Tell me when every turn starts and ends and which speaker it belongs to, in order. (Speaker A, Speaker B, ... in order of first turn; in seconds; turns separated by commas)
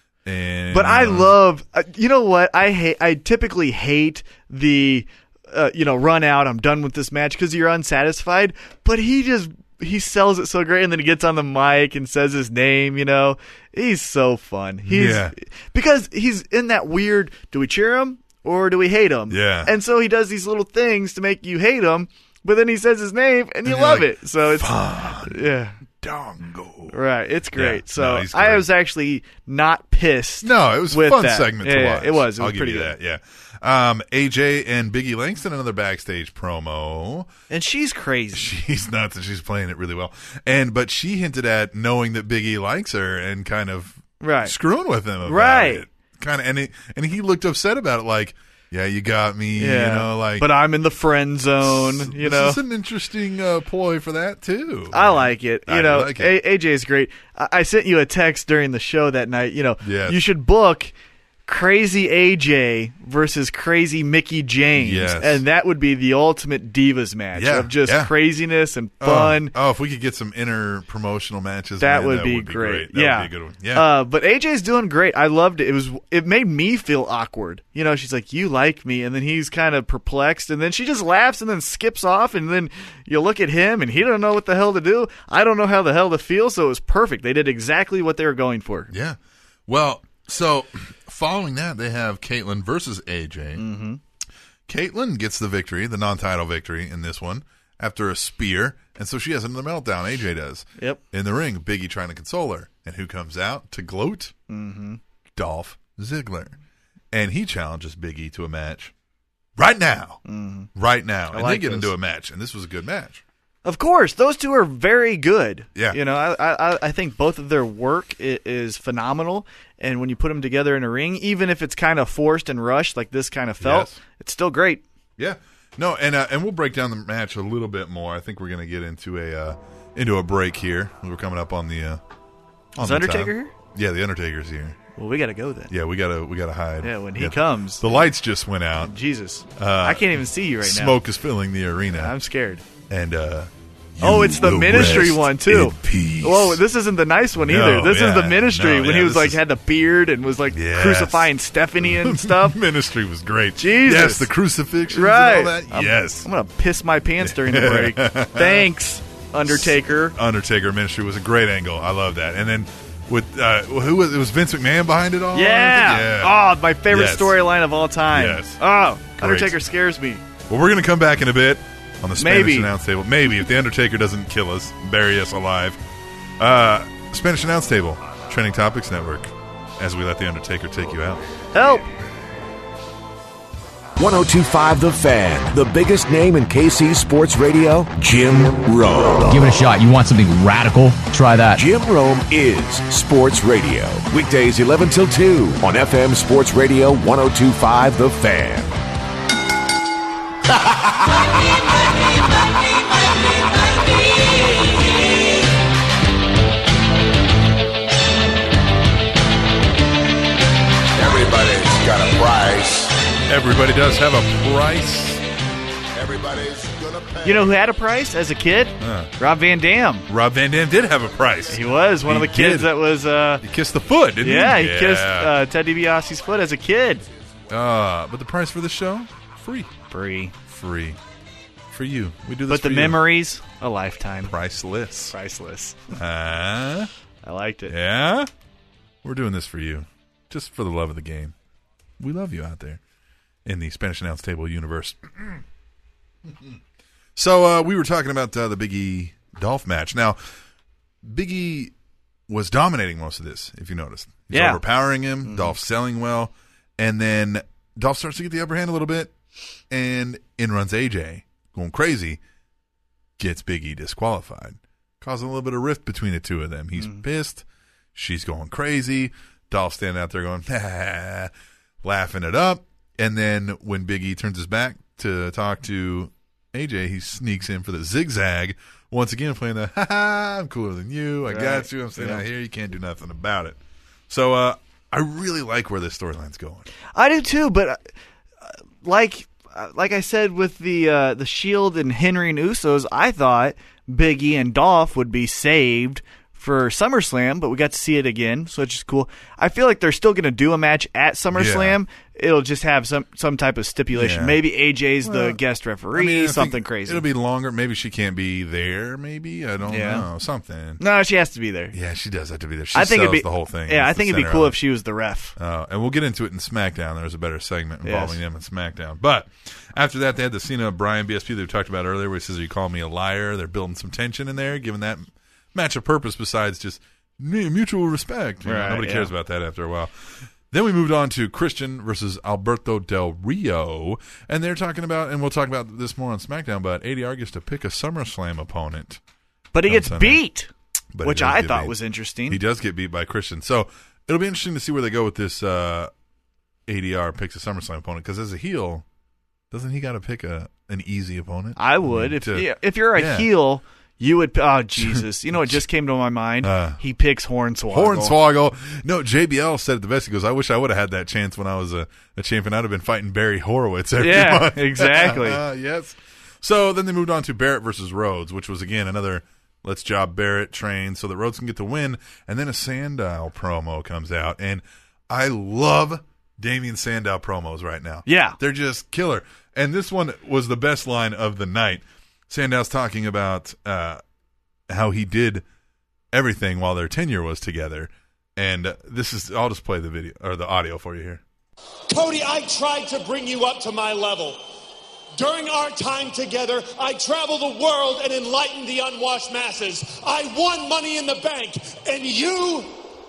Speaker A: 0.2-1.4, Speaker B: 0.7-25.8, Speaker A: 14.8-15.3, Speaker A: 19.3-19.7, Speaker A: 23.6-25.4, Speaker A: 26.0-27.0, Speaker B: 26.9-32.9, Speaker A: 27.5-28.7, Speaker A: 30.4-37.3, Speaker B: 37.5-38.5, Speaker A: 38.3-50.5, Speaker B: 44.2-44.5, Speaker B: 45.2-45.8, Speaker B: 49.5-52.6, Speaker A: 51.6-56.3, Speaker B: 54.9-60.9, Speaker A: 59.8-60.2, Speaker B: 61.5-69.5, Speaker A: 64.8-65.4, Speaker A: 67.3-68.1, Speaker A: 69.0-73.9, Speaker B: 71.8-88.9, Speaker A: 88.9-93.7, Speaker B: 93.5-94.0, Speaker A: 94.7-104.3, Speaker B: 104.5-105.0, Speaker A: 105.3-106.6, Speaker A: 107.1-108.9, Speaker A: 109.6-110.2, Speaker B: 110.2-110.7, Speaker A: 110.7-113.2, Speaker B: 111.3-111.9, Speaker B: 113.6-124.8, Speaker A: 123.6-124.0, Speaker A: 125.2-132.0, Speaker A: 132.8-134.8, Speaker B: 132.8-133.5, Speaker B: 134.9-135.7, Speaker A: 135.7-138.9, Speaker B: 136.8-137.8, Speaker B: 138.8-141.0, Speaker A: 139.6-142.1, Speaker B: 141.9-142.6, Speaker A: 142.9-146.6, Speaker B: 144.0-152.6, Speaker A: 147.4-149.4, Speaker A: 150.5-156.3, Speaker B: 153.6-154.3, Speaker B: 154.9-160.2, Speaker A: 157.2-158.7, Speaker A: 159.4-167.4, Speaker B: 165.3-170.2, Speaker A: 168.1-168.6, Speaker A: 169.2-169.6, Speaker A: 170.5-175.8, Speaker B: 172.2-172.7, Speaker A: 176.4-181.2, Speaker B: 181.5-181.8, Speaker C: 184.0-189.6, Speaker D: 189.3-191.6, Speaker C: 191.5-198.8, Speaker E: 210.9-213.1, Speaker A: 213.3-215.2, Speaker E: 215.9-217.5, Speaker B: 217.2-220.1, Speaker A: 218.8-219.1, Speaker A: 220.1-222.8, Speaker B: 221.5-223.4, Speaker A: 223.4-225.3, Speaker B: 224.2-227.0, Speaker A: 227.5-229.7, Speaker B: 229.9-230.3, Speaker A: 230.4-231.0, Speaker A: 231.7-233.0, Speaker B: 232.5-234.3, Speaker A: 234.2-235.1, Speaker B: 235.1-235.9, Speaker A: 235.9-236.9, Speaker B: 237.2-237.7, Speaker A: 237.7-238.3, Speaker A: 239.0-241.3, Speaker A: 242.0-242.8, Speaker A: 243.4-245.4, Speaker A: 246.2-246.6, Speaker A: 247.2-250.2, Speaker A: 251.0-251.7, Speaker A: 252.3-259.1, Speaker B: 254.3-254.6, Speaker B: 255.2-255.6, Speaker A: 259.7-262.2, Speaker A: 263.2-267.4, Speaker B: 266.8-267.0, Speaker A: 267.9-271.3, Speaker A: 271.8-283.6, Speaker B: 281.3-282.2, Speaker A: 284.1-286.7, Speaker B: 286.9-287.8, Speaker B: 288.8-307.1, Speaker A: 301.3-301.8, Speaker A: 303.9-304.4, Speaker A: 305.0-305.4, Speaker A: 305.9-310.8, Speaker B: 309.7-310.1, Speaker B: 310.8-311.7, Speaker A: 311.7-314.6, Speaker B: 312.7-315.3, Speaker A: 315.4-339.0, Speaker B: 317.8-318.2, Speaker B: 328.4-329.1, Speaker B: 339.5-340.5, Speaker A: 339.6-340.2, Speaker A: 340.9-341.8, Speaker B: 341.0-342.4, Speaker A: 342.3-345.9, Speaker A: 346.7-348.8, Speaker A: 349.5-353.3, Speaker B: 351.6-358.1, Speaker A: 354.8-355.6, Speaker A: 356.4-356.8, Speaker A: 357.7-384.0, Speaker B: 364.0-365.4, Speaker B: 378.1-378.4, Speaker A: 384.7-385.4, Speaker A: 386.1-391.2, Speaker F: 391.9-394.4, Speaker F: 395.2-402.8